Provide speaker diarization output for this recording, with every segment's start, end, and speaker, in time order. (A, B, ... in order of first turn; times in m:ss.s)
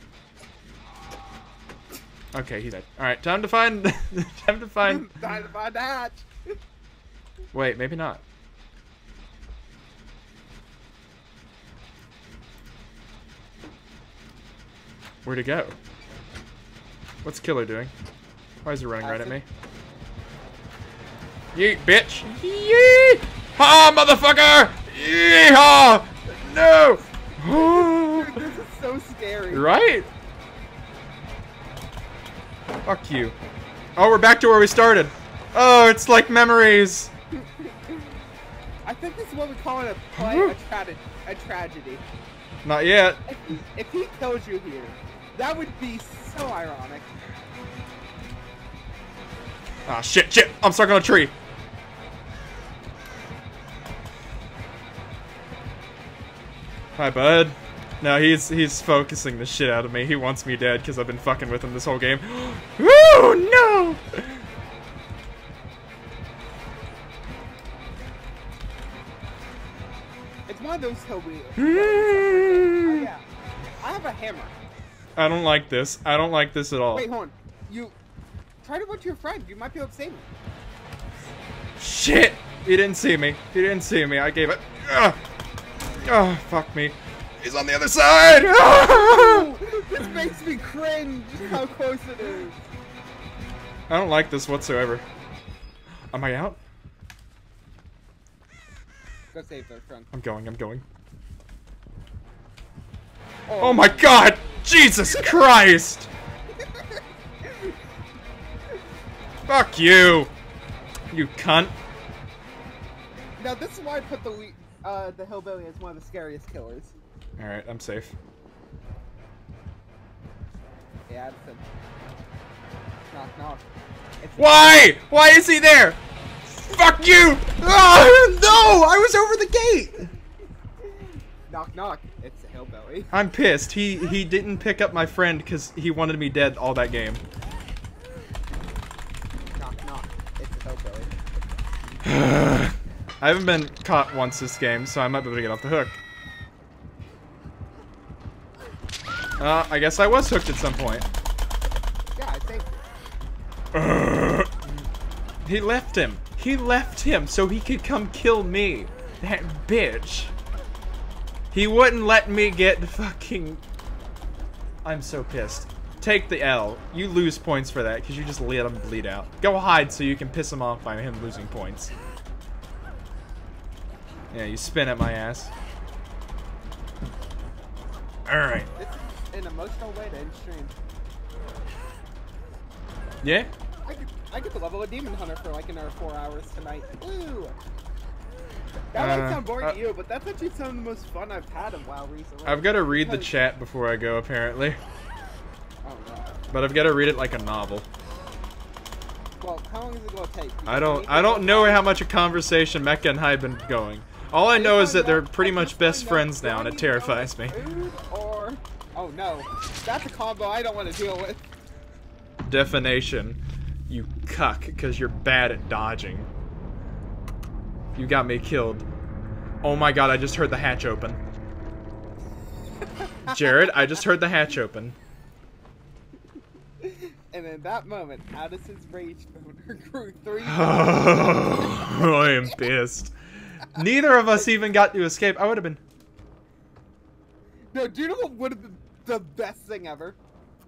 0:02.3-0:05.2 A
0:04.8-0:06.3 B
0:07.5-0:08.2 A
0:15.2-0:15.8 A
0:17.2-0:17.9 A
0:18.6-0:19.4 A
0:19.0-0:19.4 B
0:21.5-0:28.4 A
0:27.4-0:29.7 B
0:29.5-0:30.1 A
0:32.8-0:33.4 A
0:34.0-0:37.1 A
0:37.4-0:38.0 B
0:38.8-0:42.0 B
0:40.2-0:40.6 A
0:42.6-0:43.2 A
0:43.3-0:47.1 B
0:49.9-0:51.3 A
0:57.0-1:04.4 A
1:10.5-1:13.2 B
1:11.6-1:13.1 A
1:13.8-1:14.5 B
1:15.2-1:17.1 A
1:16.9-1:17.9 B
1:18.6-1:20.3 B
1:21.8-1:25.2 A
1:26.0-1:29.5 A
1:28.6-1:32.6 B
1:33.9-1:35.0 A
1:36.1-1:36.6 A
1:39.3-1:40.1 B
1:40.1-1:40.8 A
1:43.5-1:44.4 B
1:43.6-1:46.1 A
1:46.6-1:47.5 B
1:49.5-1:50.3 A
1:51.1-1:51.7 A
1:53.4-1:56.9 B
1:57.4-1:58.1 A
2:01.1-2:01.6 B
2:03.1-2:03.6 B
2:04.2-2:04.9 B
2:04.4-2:06.0 A
2:06.5-2:10.1 A
2:11.5-2:13.1 B
2:13.1-2:17.2 A
2:19.5-2:21.1 B
2:22.0-2:26.0 A
2:29.4-2:31.1 A
2:32.2-2:32.8 B
2:33.7-2:34.6 A
2:35.4-2:40.3 A
2:41.5-2:43.6 A
2:44.8-2:51.9 A
2:54.3-2:55.5 A
2:58.3-2:58.7 A
2:58.8-3:00.8 B
3:03.2-3:03.5 A
3:03.8-3:07.6 B
3:08.9-3:13.4 B
3:09.0-3:09.8 A
3:12.5-3:14.8 A
3:15.8-3:16.4 B
3:16.5-3:17.9 A
3:19.4-3:21.9 B
3:20.7-3:27.6 A
3:24.5-3:31.5 B
3:32.5-3:36.3 A
3:38.0-3:38.9 A
3:39.6-3:41.2 A
3:43.0-3:43.5 B
3:43.3-3:45.0 A
3:46.8-3:51.8 B
3:50.4-3:55.8 A
3:57.7-4:00.2 B